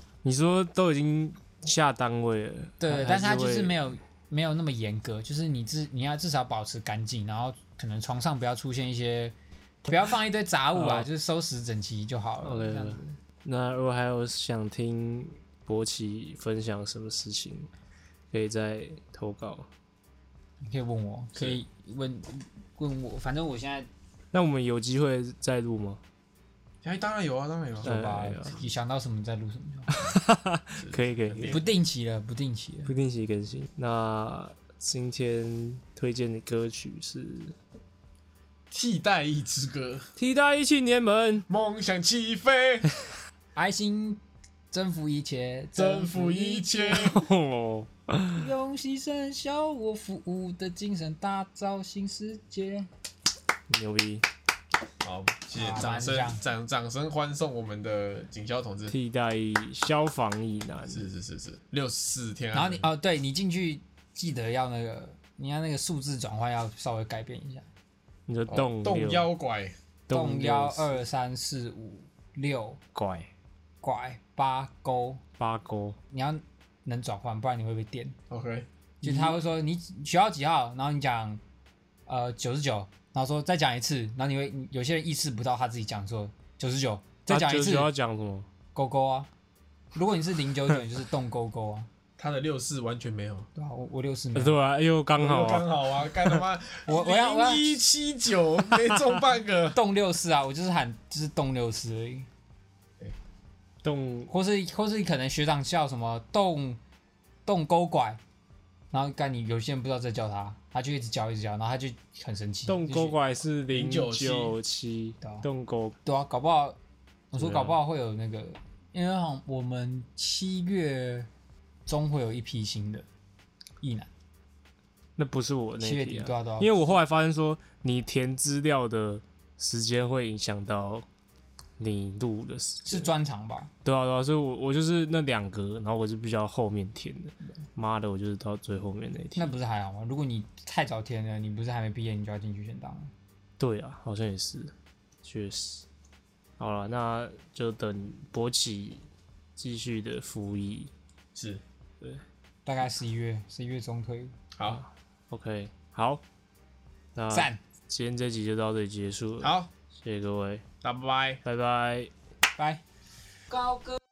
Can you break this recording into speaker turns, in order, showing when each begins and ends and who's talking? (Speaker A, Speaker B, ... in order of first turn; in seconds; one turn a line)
Speaker A: 0.2-3.8
Speaker B: 2.8-9.3
Speaker B: 9.9-13.2
Speaker A: 10.8-11.1
Speaker A: 12.4-17.7
Speaker A: 18.3-19.7
Speaker B: 20.6-23.9
Speaker A: 24.3-26.0
Speaker C: 26.8-27.9
Speaker B: 27.8-29.9
Speaker A: 27.8-28.6
Speaker A: 29.9-31.6
Speaker C: 30.8-31.6
Speaker B: 31.5-32.9
Speaker A: 32.9-37.6
Speaker C: 38.7-40.1
Speaker A: 40.2-41.5
Speaker C: 41.5-42.9
Speaker B: 43.5-47.2
Speaker C: 45.8-47.2
Speaker A: 46.9-48.5
Speaker B: 48.3-52.9
Speaker A: 53.7-54.2
Speaker C: 55.0-58.9
Speaker B: 55.5-56.4
Speaker A: 58.9-61.0
Speaker C: 60.9-62.9
Speaker B: 62.5-67.7
Speaker A: 68.3-69.3
Speaker C: 68.5-69.7
Speaker A: 70.1-71.0
Speaker B: 70.1-72.8
Speaker A: 72.9-73.3
Speaker B: 73.8-75.2
Speaker A: 75.4-76.0
Speaker B: 76.1-78.2
Speaker C: 78.3-78.7
Speaker B: 79.0-81.4
Speaker B: 82.1-87.9
Speaker A: 87.3-88.5
Speaker B: 88.8-89.3
Speaker B: 89.9-91.9
Speaker C: 92.2-93.5
Speaker B: 93.6-94.6
Speaker A: 94.3-96.4
Speaker C: 95.2-99.8
Speaker B: 96.9-97.8
Speaker B: 99.7-102.3
Speaker A: 103.8-104.3
Speaker B: 104.3-106.8
Speaker B: 107.5-108.2
Speaker B: 108.9-113.2
Speaker A: 112.7-116.0
Speaker C: 113.7-114.5
Speaker B: 115.2-115.5
Speaker B: 116.0-116.8
Speaker B: 117.3-121.3
Speaker A: 117.4-117.8
Speaker B: 121.9-123.0
Speaker B: 123.8-124.1
Speaker A: 125.2-131.1
Speaker B: 125.8-126.9
Speaker A: 131.8-133.1
Speaker B: 132.8-133.7
Speaker A: 133.8-139.5
Speaker B: 139.3-143.1
Speaker A: 143.6-144.7
Speaker A: 145.2-145.8
Speaker A: 146.6-149.0
Speaker A: 149.6-150.9
Speaker C: 151.3-151.6
Speaker B: 152.7-154.3
Speaker C: 154.6-154.8
Speaker A: 154.7-156.2
Speaker A: 157.2-160.6
Speaker B: 157.3-157.6
Speaker C: 159.4-159.7
Speaker C: 160.8-161.4
Speaker A: 161.4-162.1
Speaker B: 162.6-162.8
Speaker B: 163.5-164.0